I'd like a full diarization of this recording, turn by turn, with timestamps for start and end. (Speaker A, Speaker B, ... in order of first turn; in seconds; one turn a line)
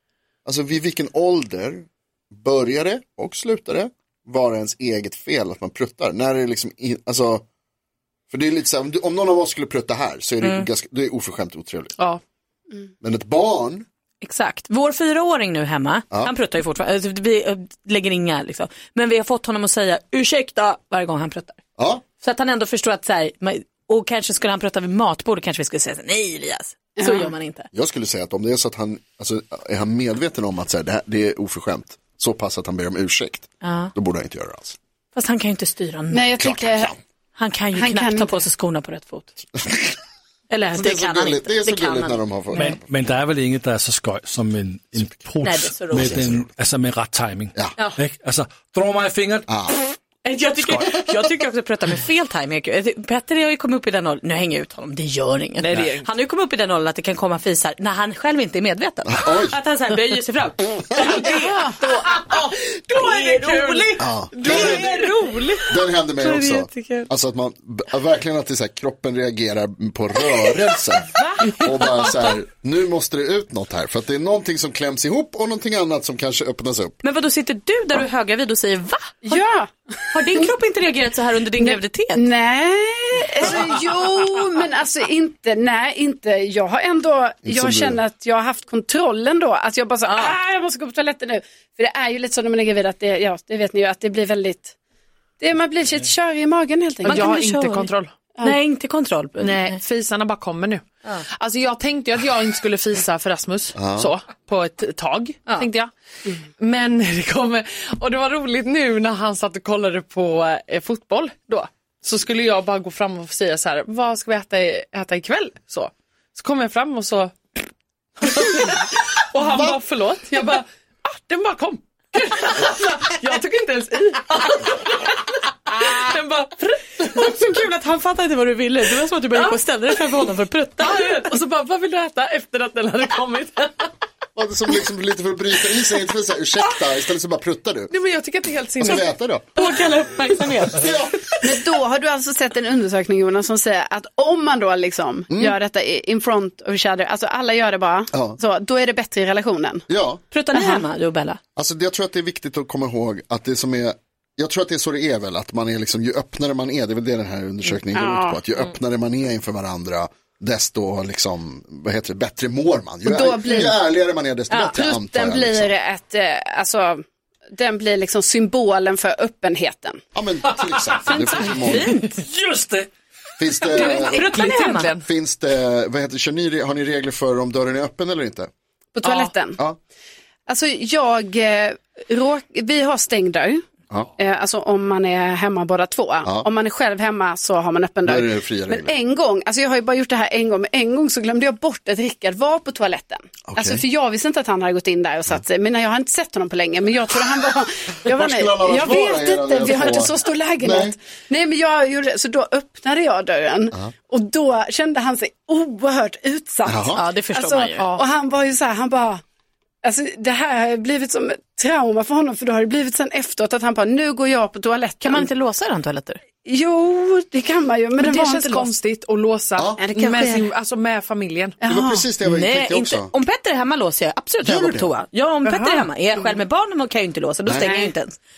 Speaker A: 0.5-7.5
Speaker A: 8.3-12.0
Speaker B: 10.4-10.7
Speaker A: 13.0-13.8
Speaker B: 14.2-21.6
Speaker A: 21.8-22.0
Speaker B: 22.2-27.7
Speaker C: 27.0-27.3
Speaker A: 27.7-34.8
Speaker B: 33.6-33.9
Speaker B: 35.1-36.3
Speaker C: 36.1-36.9
Speaker A: 36.4-37.0
Speaker B: 37.4-39.3
Speaker C: 37.8-38.3
Speaker B: 40.5-42.2
Speaker A: 40.7-42.9
Speaker D: 42.5-49.5
Speaker B: 45.4-46.2
Speaker A: 45.9-46.5
Speaker A: 49.5-49.7
Speaker B: 49.7-62.1
Speaker E: 55.6-56.1
Speaker A: 59.1-59.6
Speaker E: 61.2-65.6
Speaker C: 61.2-62.0
Speaker B: 62.9-65.5
Speaker A: 64.0-64.9
Speaker A: 65.7-77.0
Speaker B: 66.2-67.1
Speaker E: 71.1-72.1
Speaker B: 77.0-79.3
Speaker C: 79.2-79.7
Speaker B: 80.1-82.3
Speaker C: 80.2-80.5
Speaker C: 81.6-94.7
Speaker A: 87.5-88.0
Speaker B: 90.1-90.4
Speaker C: 95.4-97.2
Speaker E: 97.0-98.1
Speaker B: 97.0-97.9
Speaker B: 98.4-99.8
Speaker E: 99.4-117.4
Speaker A: 103.8-104.1
Speaker E: 118.2-127.5
Speaker B: 127.0-131.0
Speaker E: 130.8-133.9
Speaker A: 134.3-137.9
Speaker E: 137.9-139.1
Speaker A: 138.8-139.5
Speaker B: 139.6-141.3
Speaker A: 140.8-141.2
Speaker C: 141.4-149.9
Speaker A: 148.1-148.4
Speaker A: 149.9-150.2
Speaker B: 150.3-151.4
Speaker C: 150.5-150.9
Speaker A: 151.6-165.7
Speaker C: 157.9-158.4
Speaker C: 163.1-163.9
Speaker C: 164.5-167.0
Speaker C: 167.6-170.0
Speaker A: 170.1-172.0
Speaker D: 170.5-171.0
Speaker B: 171.1-172.2
Speaker D: 171.7-172.9
Speaker A: 173.4-174.3
Speaker B: 173.7-174.9
Speaker E: 173.8-175.1
Speaker A: 175.0-178.5
Speaker C: 178.9-179.6
Speaker E: 179.0-179.3
Speaker C: 180.5-183.7
Speaker C: 184.2-209.2
Speaker A: 188.1-188.9
Speaker A: 193.5-193.8
Speaker A: 198.1-200.9
Speaker A: 206.7-207.0
Speaker B: 206.9-207.8
Speaker C: 209.8-215.3
Speaker B: 215.0-216.2
Speaker C: 216.4-218.7
Speaker E: 218.0-221.6
Speaker C: 219.8-220.5
Speaker C: 221.6-222.1
Speaker A: 221.7-223.1
Speaker B: 222.2-228.2
Speaker A: 224.4-224.9
Speaker E: 225.5-225.8
Speaker A: 227.5-227.7
Speaker C: 227.6-227.9